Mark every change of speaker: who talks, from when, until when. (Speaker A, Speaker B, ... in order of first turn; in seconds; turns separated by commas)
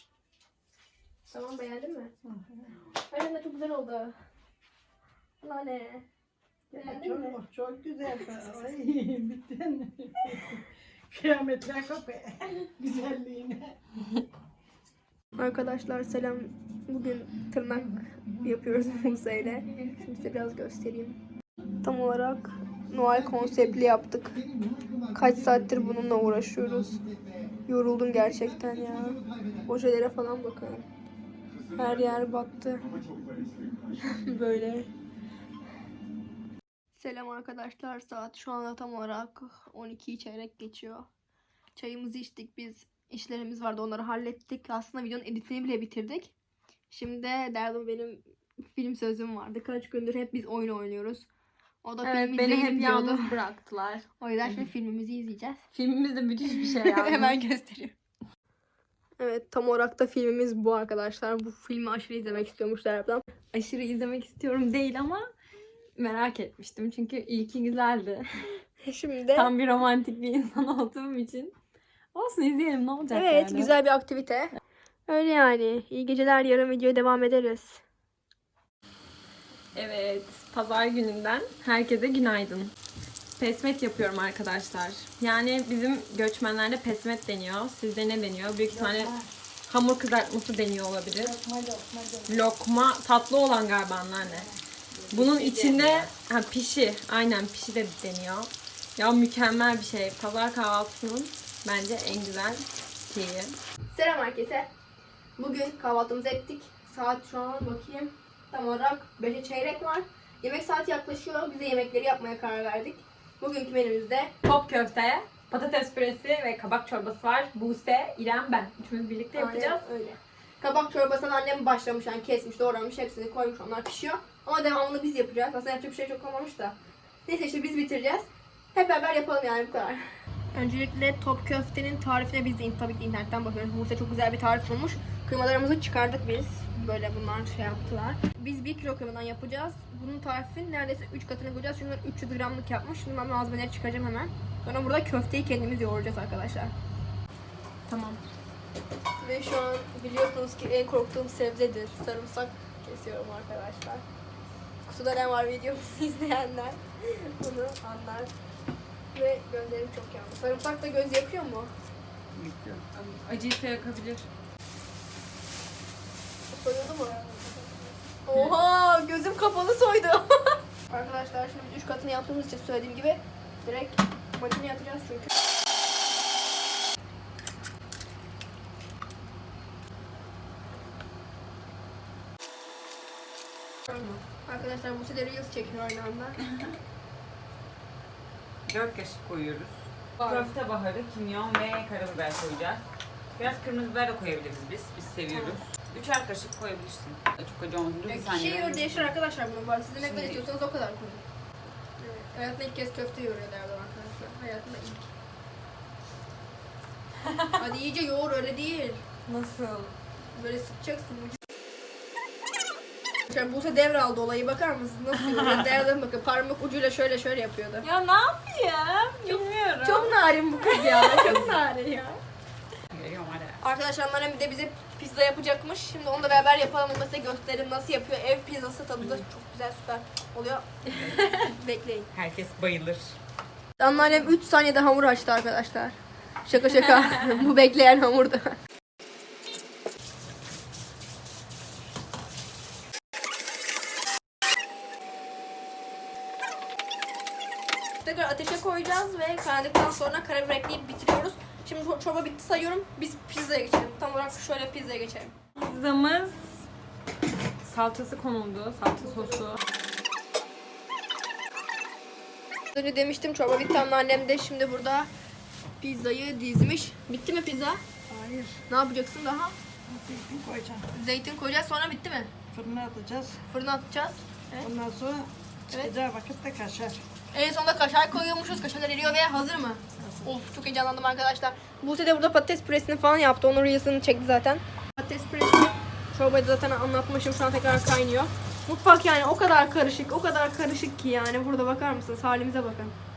Speaker A: 1.3-2.1, Speaker B: 2.3-2.7, Speaker A: 3.1-4.2, Speaker A: 5.4-6.0, Speaker B: 6.7-13.8, Speaker A: 6.8-7.4, Speaker A: 15.4-21.2, Speaker A: 21.8-24.4, Speaker A: 25.1-27.0, Speaker A: 27.7-30.9, Speaker A: 31.8-32.9, Speaker A: 34.0-34.9, Speaker A: 37.0-41.1, Speaker A: 41.8-46.3, Speaker A: 46.9-51.3, Speaker A: 51.8-53.4, Speaker C: 52.0-54.1, Speaker A: 54.2-55.6, Speaker C: 55.7-57.4, Speaker A: 56.7-57.9, Speaker A: 59.2-63.2, Speaker C: 63.5-65.3, Speaker C: 66.0-68.6, Speaker A: 68.8-69.5, Speaker C: 69.3-71.5, Speaker C: 72.1-73.8, Speaker A: 73.1-74.5, Speaker A: 75.1-77.8, Speaker C: 79.7-82.7, Speaker C: 83.4-89.1, Speaker B: 88.7-89.3, Speaker C: 89.7-91.4, Speaker B: 91.2-92.5, Speaker C: 92.3-94.5, Speaker B: 94.2-94.6, Speaker C: 95.1-103.6, Speaker D: 95.2-96.1, Speaker A: 103.9-104.7, Speaker A: 105.4-114.3, Speaker C: 114.4-119.8, Speaker A: 119.3-146.7, Speaker C: 147.9-148.2, Speaker A: 149.2-154.1, Speaker A: 154.8-158.3, Speaker A: 159.1-161.7, Speaker D: 162.3-162.8, Speaker C: 162.9-164.3, Speaker A: 166.5-175.3, Speaker A: 183.9-186.4, Speaker D: 188.7-192.8, Speaker C: 190.2-190.5, Speaker D: 193.4-199.2, Speaker A: 195.3-195.6, Speaker A: 198.1-201.2, Speaker D: 200.0-200.4, Speaker A: 202.0-205.1, Speaker A: 207.6-209.0, Speaker C: 209.3-209.9, Speaker A: 210.3-211.4, Speaker A: 213.3-217.8, Speaker C: 217.8-221.6, Speaker A: 219.3-222.2, Speaker D: 222.9-223.6, Speaker A: 223.6-232.1, Speaker D: 232.1-233.2, Speaker A: 233.8-238.6, Speaker A: 248.0-255.3, Speaker C: 255.6-256.7, Speaker C: 257.6-259.6, Speaker A: 259.1-259.4, Speaker A: 262.8-265.1, Speaker A: 265.8-267.8, Speaker B: 268.1-268.6, Speaker A: 268.7-269.6, Speaker B: 269.9-270.9, Speaker A: 270.9-272.3, Speaker B: 272.5-273.4, Speaker A: 273.5-274.7, Speaker B: 274.6-277.1, Speaker A: 277.3-292.9, Speaker B: 280.0-280.3